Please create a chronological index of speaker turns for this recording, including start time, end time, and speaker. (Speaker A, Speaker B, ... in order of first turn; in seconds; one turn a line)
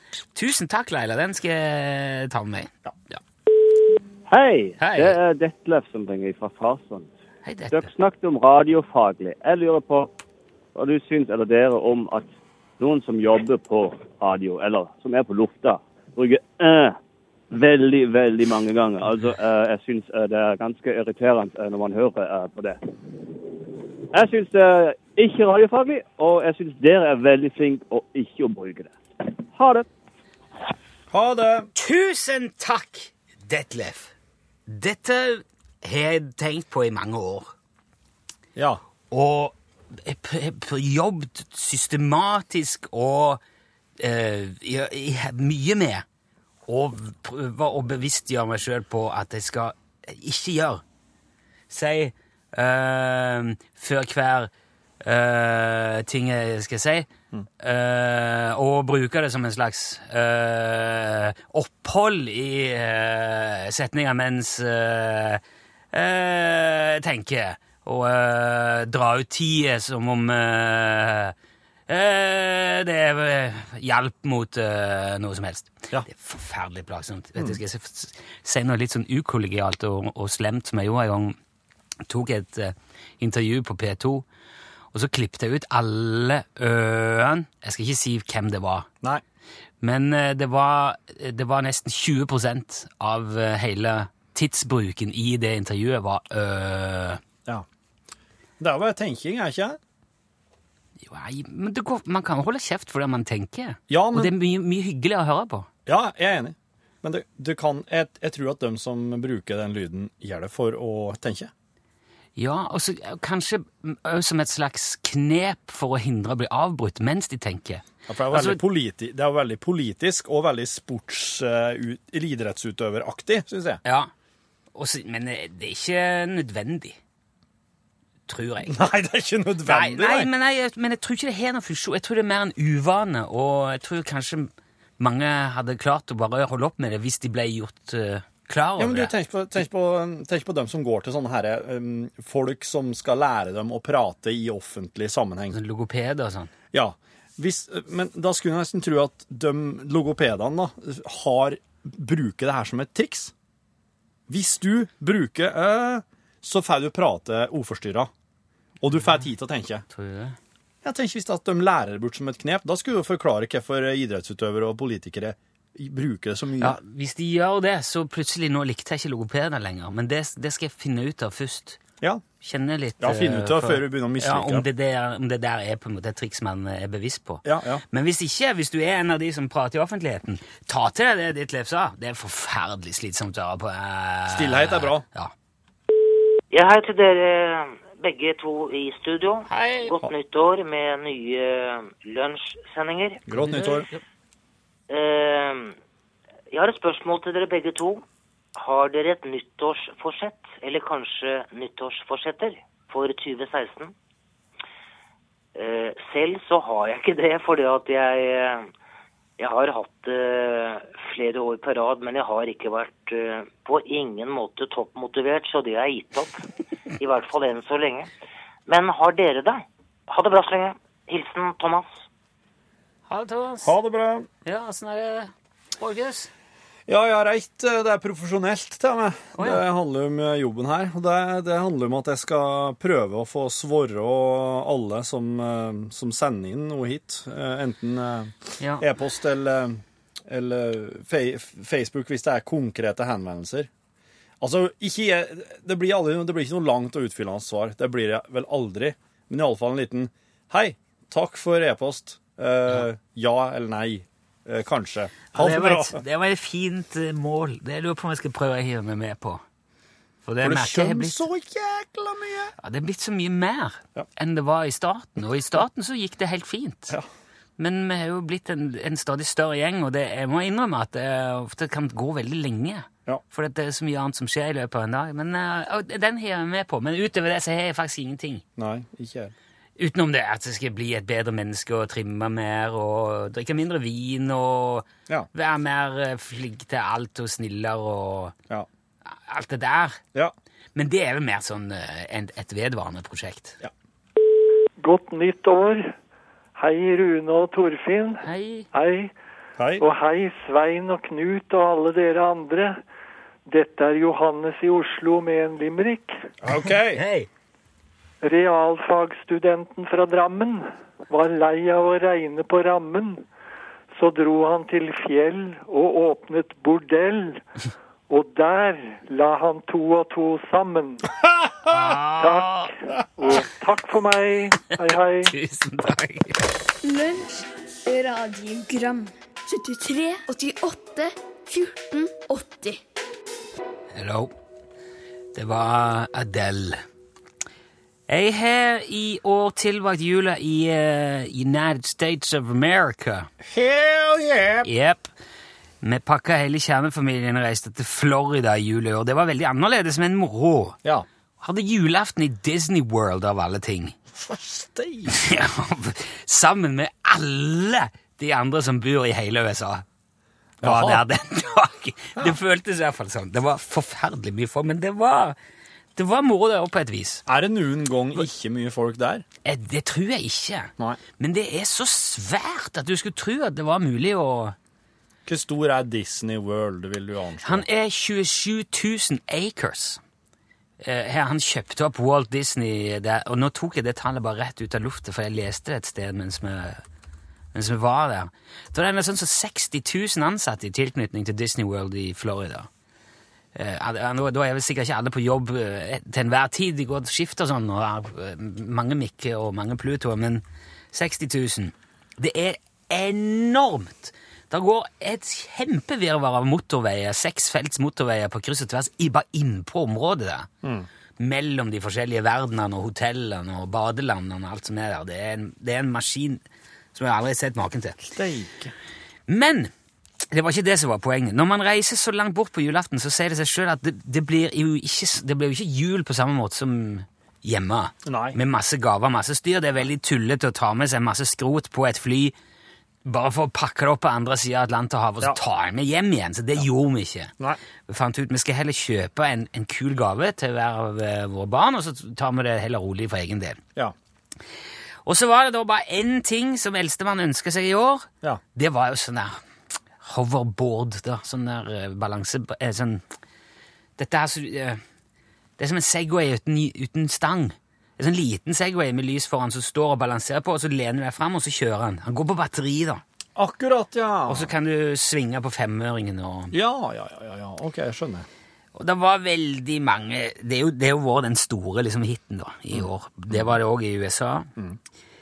Speaker A: 0.3-3.2
Speaker B: 4.3-7.1
Speaker A: 4.8-5.2
Speaker A: 7.4-7.9
Speaker B: 7.7-10.1
Speaker B: 10.8-16.9
Speaker B: 17.5-22.8
Speaker B: 24.1-29.9
Speaker C: 31.1-31.7
Speaker A: 31.7-34.1
Speaker A: 34.7-37.5
Speaker C: 38.5-38.8
Speaker A: 39.1-43.4
Speaker A: 44.0-46.0
Speaker A: 46.7-50.8
Speaker A: 51.7-54.5
Speaker A: 55.0-57.1
Speaker A: 57.6-65.4
Speaker A: 65.9-71.3
Speaker A: 71.9-81.3
Speaker A: 82.0-84.2
Speaker A: 84.9-88.9
Speaker A: 89.8-97.2
Speaker C: 98.6-99.8
Speaker A: 101.0-105.7
Speaker C: 103.9-104.3
Speaker C: 105.8-111.5
Speaker A: 112.3-118.6
Speaker C: 118.1-123.8
Speaker A: 123.8-124.1
Speaker A: 124.7-127.0
Speaker A: 128.3-128.8
Speaker C: 128.7-130.3
Speaker A: 129.7-139.1
Speaker C: 138.8-145.6
Speaker A: 145.5-146.5
Speaker C: 146.7-153.3
Speaker C: 154.3-158.1
Speaker C: 158.8-159.8
Speaker A: 159.9-160.4
Speaker C: 160.8-166.8
Speaker A: 166.6-171.8
Speaker A: 172.4-185.3
Speaker C: 173.0-174.6
Speaker C: 177.4-177.8
Speaker C: 184.3-185.0
Speaker D: 186.5-193.2
Speaker A: 189.5-189.9
Speaker C: 193.3-193.9
Speaker A: 193.3-194.0
Speaker D: 194.9-195.7
Speaker D: 196.5-198.0
Speaker D: 198.6-203.9
Speaker D: 205.6-208.7
Speaker D: 209.4-216.4
Speaker D: 217.0-218.1
Speaker D: 218.7-221.9
Speaker A: 223.1-223.8
Speaker C: 223.6-224.3
Speaker A: 224.4-226.3
Speaker C: 226.9-243.7
Speaker A: 229.3-229.6
Speaker C: 244.4-256.0
Speaker A: 255.3-259.4
Speaker A: 260.2-261.2
Speaker C: 260.4-262.5
Speaker A: 262.6-267.0
Speaker A: 267.6-278.4
Speaker C: 278.6-279.3
Speaker A: 279.8-288.3
Speaker A: 289.1-290.0
Speaker A: 290.7-293.6
Speaker E: 294.8-295.9
Speaker E: 296.6-299.1
Speaker A: 298.2-298.7
Speaker C: 299.6-299.8
Speaker E: 299.8-302.8
Speaker E: 303.5-306.2
Speaker C: 306.4-307.0
Speaker A: 306.6-307.3
Speaker E: 308.2-313.2
Speaker E: 313.9-317.4
Speaker E: 318.1-321.1
Speaker A: 321.7-322.7
Speaker E: 322.2-325.3
Speaker A: 325.2-326.5
Speaker F: 326.8-332.8
Speaker A: 333.9-334.3
Speaker A: 335.3-336.8
Speaker A: 338.1-343.3
Speaker C: 343.4-344.7
Speaker A: 344.6-345.1
Speaker A: 345.8-350.8
Speaker A: 351.4-353.9
Speaker C: 354.1-355.2
Speaker A: 355.1-359.8
Speaker A: 360.6-365.4
Speaker C: 360.6-361.0
Speaker A: 365.9-367.2
Speaker C: 367.3-369.2
Speaker A: 369.4-374.6
Speaker C: 375.2-377.6
Speaker A: 377.4-380.0
Speaker A: 380.8-386.8
Speaker A: 387.5-392.7
Speaker A: 393.5-410.5
Speaker C: 410.6-410.9
Speaker A: 411.2-416.4
Speaker A: 416.9-418.1
Speaker C: 418.1-418.7
Speaker A: 419.3-419.7
Speaker A: 420.3-432.3
Speaker C: 428.0-428.4
Speaker A: 433.0-437.3
Speaker A: 437.9-443.6
Speaker A: 445.0-449.4
Speaker A: 450.0-453.0
Speaker A: 454.0-454.8
Speaker A: 455.6-463.0
Speaker C: 463.4-464.5
Speaker A: 464.3-466.5
Speaker C: 466.5-468.3
Speaker A: 468.7-474.5
Speaker C: 472.7-473.5